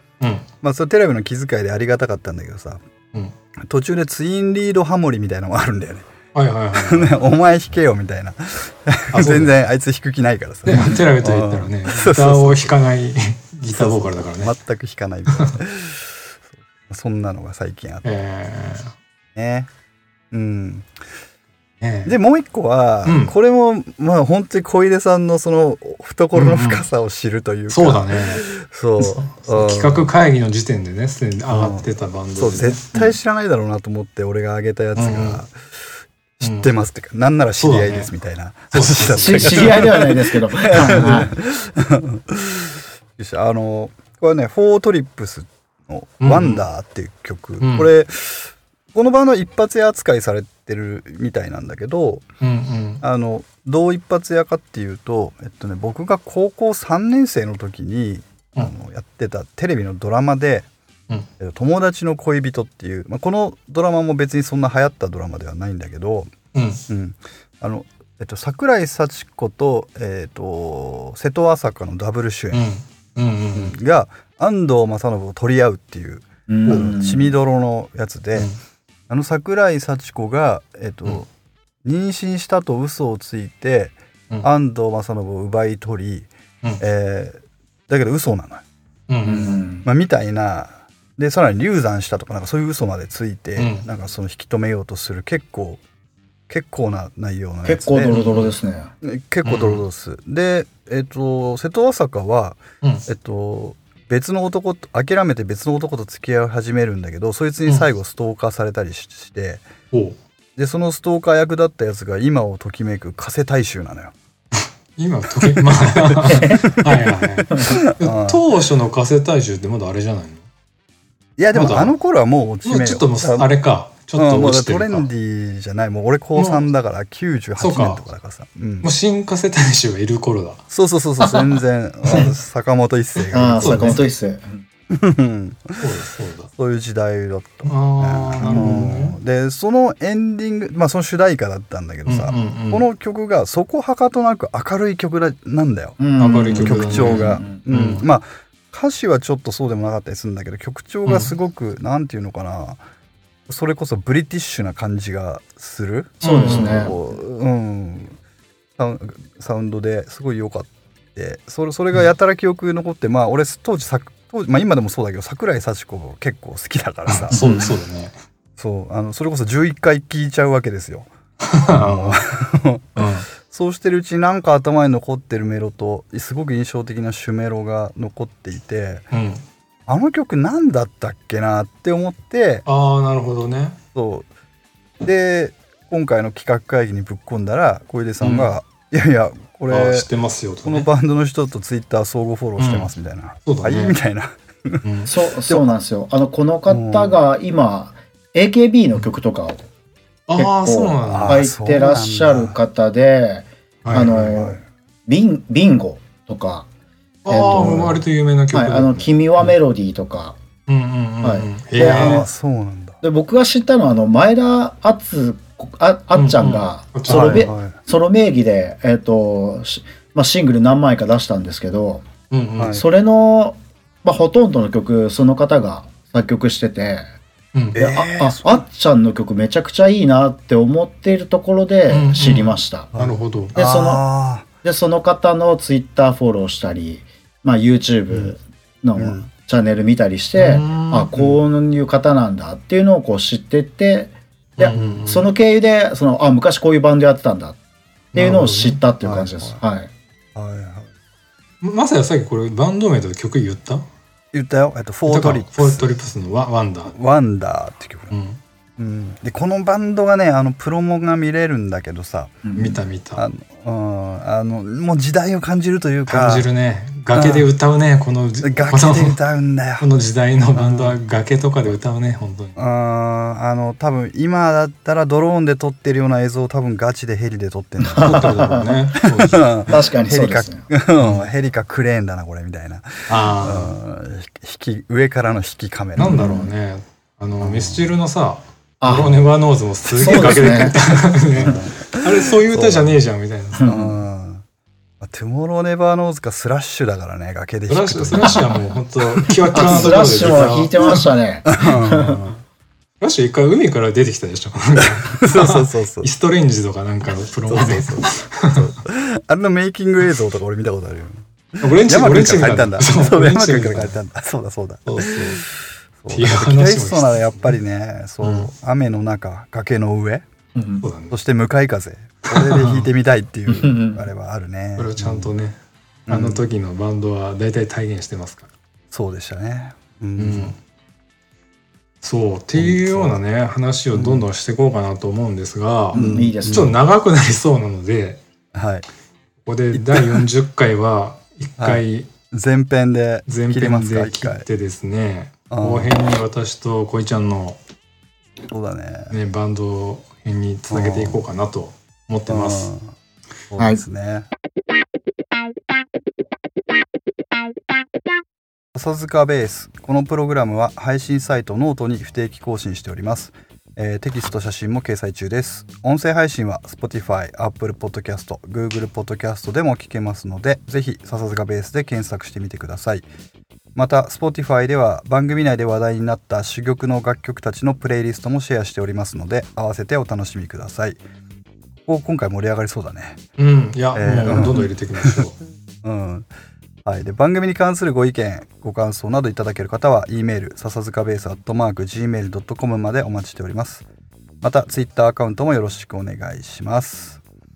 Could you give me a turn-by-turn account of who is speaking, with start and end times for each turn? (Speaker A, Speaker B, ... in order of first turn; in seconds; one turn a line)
Speaker A: 0.2-0.5
Speaker B: 0.6-2.8
Speaker B: 3.6-6.1
Speaker A: 6.3-7.1
Speaker B: 6.7-12.7
Speaker A: 9.1-9.5
Speaker A: 10.7-14.5
Speaker B: 13.7-16.3
Speaker A: 15.3-15.6
Speaker B: 16.9-18.1
Speaker A: 18.0-18.9
Speaker B: 19.3-19.7
Speaker B: 20.3-20.9
Speaker A: 21.8-22.1
Speaker B: 22.0-30.0
Speaker A: 23.0-23.3
Speaker A: 26.3-26.8
Speaker A: 27.7-28.4
Speaker A: 29.0-32.9
Speaker B: 31.5-35.5
Speaker A: 34.9-35.4
Speaker B: 36.4-52.2
Speaker A: 36.4-36.7
Speaker A: 37.6-38.1
Speaker A: 38.7-40.2
Speaker C: 39.1-41.3
Speaker A: 40.7-41.1
Speaker A: 46.2-46.6
Speaker A: 47.6-47.9
Speaker A: 52.4-53.0
Speaker B: 53.0-60.7
Speaker B: 61.4-66.3
Speaker A: 66.5-66.8
Speaker B: 66.9-72.6
Speaker A: 72.5-73.7
Speaker B: 73.5-78.5
Speaker C: 76.5-77.3
Speaker B: 79.1-81.3
Speaker B: 81.8-86.3
Speaker B: 86.8-88.6
Speaker A: 89.1-89.6
Speaker C: 89.2-89.8
Speaker B: 89.8-95.8
Speaker A: 93.5-93.8
Speaker B: 96.5-98.3
Speaker C: 97.6-98.9
Speaker B: 99.0-109.7
Speaker A: 99.4-99.8
Speaker A: 109.9-110.2
Speaker B: 110.5-114.1
Speaker A: 115.0-120.5
Speaker B: 115.4-118.4
Speaker C: 116.2-116.8
Speaker C: 117.5-117.8
Speaker B: 121.4-123.5
Speaker A: 121.5-121.9
Speaker A: 122.6-125.1
Speaker B: 124.1-128.9
Speaker A: 126.3-126.7
Speaker A: 127.6-128.0
Speaker A: 128.8-130.6
Speaker B: 130.7-134.0
Speaker C: 131.2-131.6
Speaker A: 132.0-132.3
Speaker C: 133.3-134.6
Speaker A: 133.6-134.0
Speaker B: 134.9-135.9
Speaker A: 135.8-136.5
Speaker B: 136.5-146.0
Speaker A: 137.7-139.1
Speaker A: 142.1-142.8
Speaker C: 146.0-147.6
Speaker A: 146.2-148.0
Speaker B: 146.5-152.8
Speaker A: 151.1-151.3
Speaker B: 153.5-158.2
Speaker A: 156.2-156.9
Speaker C: 156.2-157.0
Speaker B: 158.8-167.4
Speaker A: 167.1-168.2
Speaker C: 167.3-167.8
Speaker B: 168.6-171.1
Speaker A: 171.4-172.3
Speaker B: 171.6-179.1
Speaker A: 172.9-173.3
Speaker A: 179.1-179.4
Speaker B: 179.9-182.6
Speaker A: 182.7-183.8
Speaker B: 183.9-184.3
Speaker B: 185.0-190.1
Speaker A: 188.2-188.5
Speaker A: 189.7-190.9
Speaker B: 190.6-194.8
Speaker A: 192.6-192.9
Speaker A: 193.4-194.0
Speaker A: 194.8-195.1
Speaker C: 195.1-199.6
Speaker B: 195.5-195.7
Speaker B: 196.7-197.2
Speaker A: 200.3-201.5
Speaker C: 200.3-206.7
Speaker B: 201.0-202.6
Speaker A: 203.8-204.3
Speaker B: 204.0-204.6
Speaker A: 207.2-209.4
Speaker C: 207.3-210.4
Speaker A: 210.7-212.2
Speaker C: 211.2-212.2
Speaker B: 211.8-213.0
Speaker C: 213.0-222.1
Speaker A: 216.1-217.5
Speaker B: 217.1-217.7
Speaker A: 222.3-222.8
Speaker B: 222.6-222.8
Speaker C: 222.7-227.0
Speaker A: 227.5-227.8
Speaker B: 227.7-228.6
Speaker C: 227.8-232.9
Speaker A: 231.9-233.5
Speaker B: 232.9-234.5
Speaker C: 233.6-234.1
Speaker C: 234.6-247.6
Speaker B: 239.0-239.3
Speaker A: 240.3-241.1
Speaker B: 241.1-241.4
Speaker A: 244.6-245.3
Speaker B: 244.7-245.0
Speaker A: 248.1-248.8
Speaker C: 248.1-249.9
Speaker B: 249.0-249.6
Speaker B: 250.3-250.9
Speaker A: 251.6-253.9
Speaker B: 254.3-255.9
Speaker A: 255.1-256.9
Speaker B: 256.9-258.1
Speaker A: 258.1-258.4
Speaker B: 258.8-262.4
Speaker C: 262.4-262.8
Speaker A: 262.5-263.2
Speaker B: 263.1-266.5
Speaker A: 266.1-269.2
Speaker B: 267.1-267.5
Speaker B: 268.4-269.9
Speaker A: 269.8-272.6
Speaker B: 270.6-271.0
Speaker B: 272.6-286.3
Speaker C: 277.8-278.7
Speaker A: 278.0-279.7
Speaker C: 279.7-280.6
Speaker A: 281.0-281.3
Speaker A: 283.1-283.8
Speaker A: 286.0-293.6
Speaker C: 286.0-286.5
Speaker B: 287.4-287.9
Speaker C: 288.8-289.2
Speaker C: 289.9-290.8
Speaker B: 290.0-293.0
Speaker C: 293.6-293.9
Speaker B: 293.6-294.4
Speaker B: 295.0-300.5
Speaker A: 297.7-301.1
Speaker C: 299.5-302.2
Speaker B: 301.4-302.2
Speaker A: 301.8-302.4
Speaker A: 303.0-308.7
Speaker B: 304.8-306.1
Speaker B: 307.5-315.4
Speaker A: 311.6-313.9
Speaker A: 314.9-315.4
Speaker B: 316.0-320.2
Speaker A: 316.1-317.6
Speaker A: 318.2-318.5
Speaker C: 320.5-320.8
Speaker A: 320.8-321.1
Speaker B: 321.1-325.3
Speaker A: 322.3-322.9
Speaker C: 323.5-324.0
Speaker A: 324.8-325.6
Speaker B: 326.1-326.4
Speaker A: 326.1-328.5
Speaker B: 328.9-330.5
Speaker A: 330.2-330.6
Speaker A: 332.0-338.2
Speaker B: 332.5-333.2
Speaker B: 333.9-334.3
Speaker B: 335.9-336.8
Speaker C: 335.9-336.7
Speaker B: 338.5-338.9
Speaker A: 339.4-342.1
Speaker B: 339.7-340.3
Speaker B: 341.6-344.4
Speaker A: 343.3-347.6
Speaker B: 345.5-345.9
Speaker B: 348.5-349.2
Speaker A: 349.1-352.7
Speaker B: 350.7-351.2
Speaker B: 352.3-352.9
Speaker B: 353.5-354.3
Speaker B: 358.7-373.0
Speaker B: 373.7-381.0
Speaker B: 381.9-383.2
Speaker A: 383.4-385.4
Speaker B: 383.9-385.3
Speaker B: 385.8-386.3
Speaker B: 386.8-393.8
Speaker B: 394.4-397.2